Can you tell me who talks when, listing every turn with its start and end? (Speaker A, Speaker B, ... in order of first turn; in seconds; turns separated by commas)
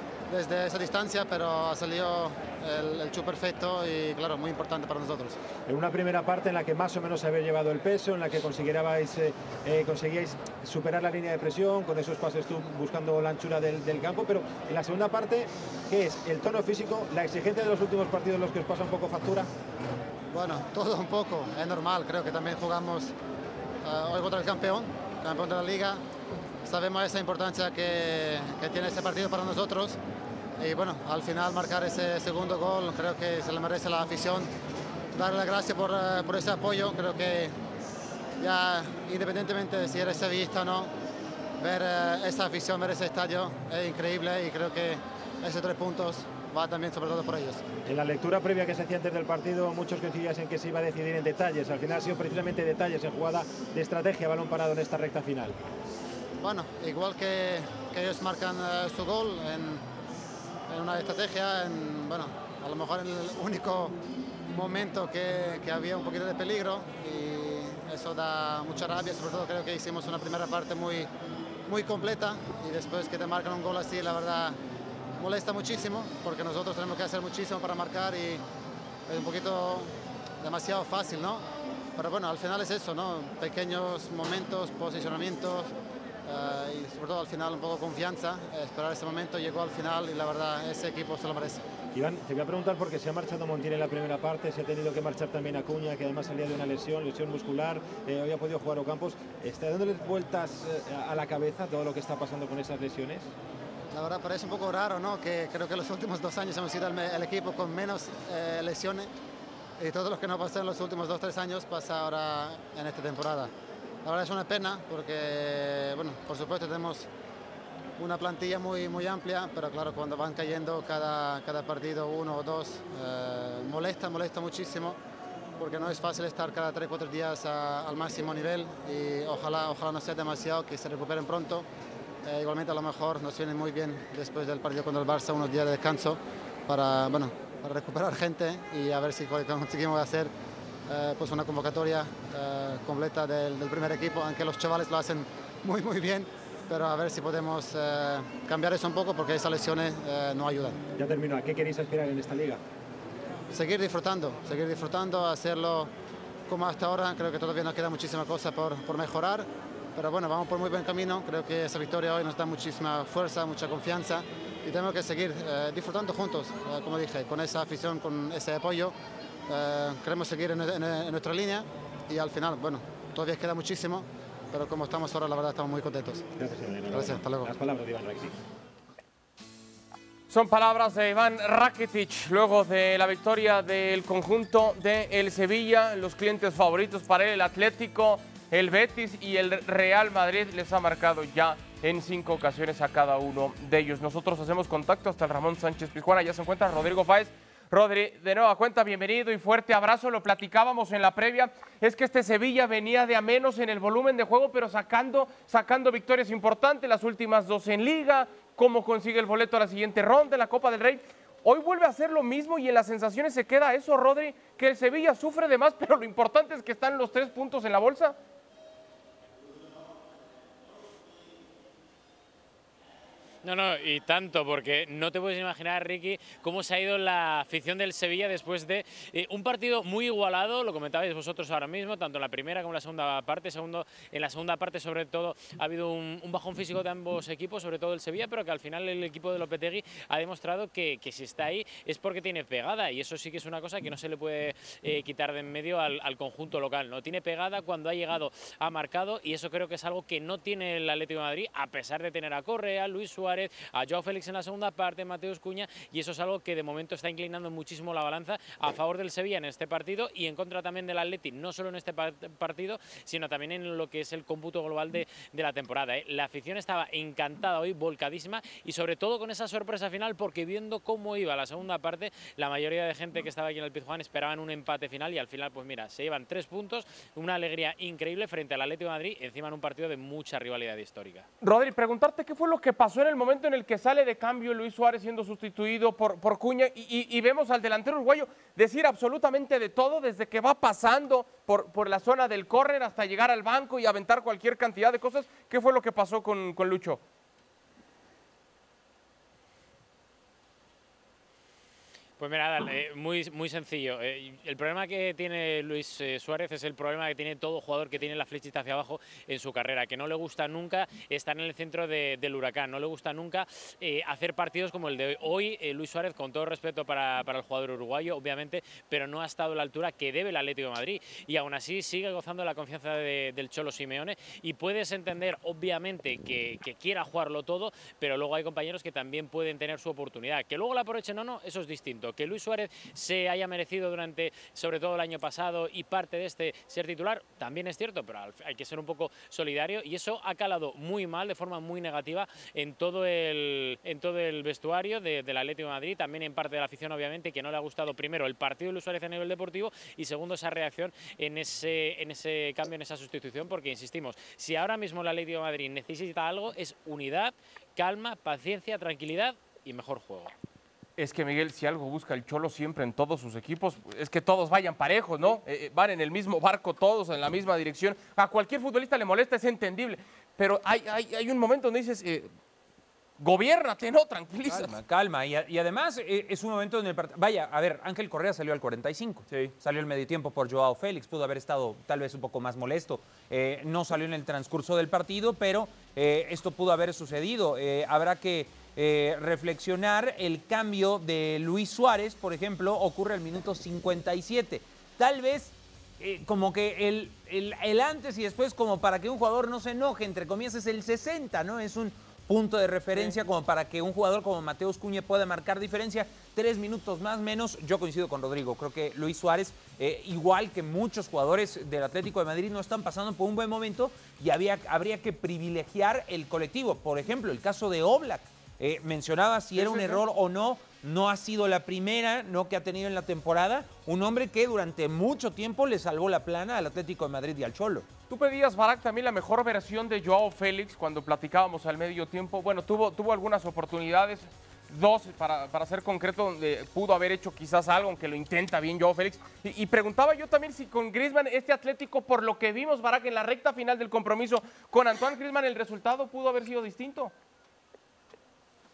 Speaker A: 0.3-5.4, Speaker B: 5.7-19.5, Speaker A: 20.3-23.1, Speaker A: 23.8-26.0, Speaker A: 26.6-30.0, Speaker A: 30.6-34.5, Speaker A: 35.1-37.5, Speaker A: 38.4-40.9, Speaker A: 41.6-47.6, Speaker B: 47.9-55.6, Speaker A: 56.4-59.8, Speaker A: 60.7-64.0, Speaker A: 64.5-71.1, Speaker A: 71.7-74.6, Speaker A: 75.2-78.4, Speaker A: 79.1-81.4, Speaker A: 82.0-85.7, Speaker A: 86.2-91.6, Speaker B: 91.9-103.3, Speaker A: 103.9-109.1, Speaker A: 109.8-113.5, Speaker A: 114.0-117.1, Speaker A: 118.0-125.0, Speaker A: 125.6-131.7, Speaker A: 132.2-140.3, Speaker A: 140.9-150.8, Speaker B: 151.0-152.6, Speaker A: 153.5-155.9, Speaker A: 156.5-168.9, Speaker A: 169.5-176.2, Speaker B: 176.4-178.4, Speaker A: 176.9-177.5, Speaker C: 180.3-218.2, Speaker D: 223.4-281.3, Speaker C: 281.4-297.0, Speaker D: 302.2-360.3, Speaker C: 361.0-372.3, Speaker C: 373.2-374.8, Speaker E: 374.5-427.9, Speaker C: 419.6-420.0, Speaker C: 428.1-447.1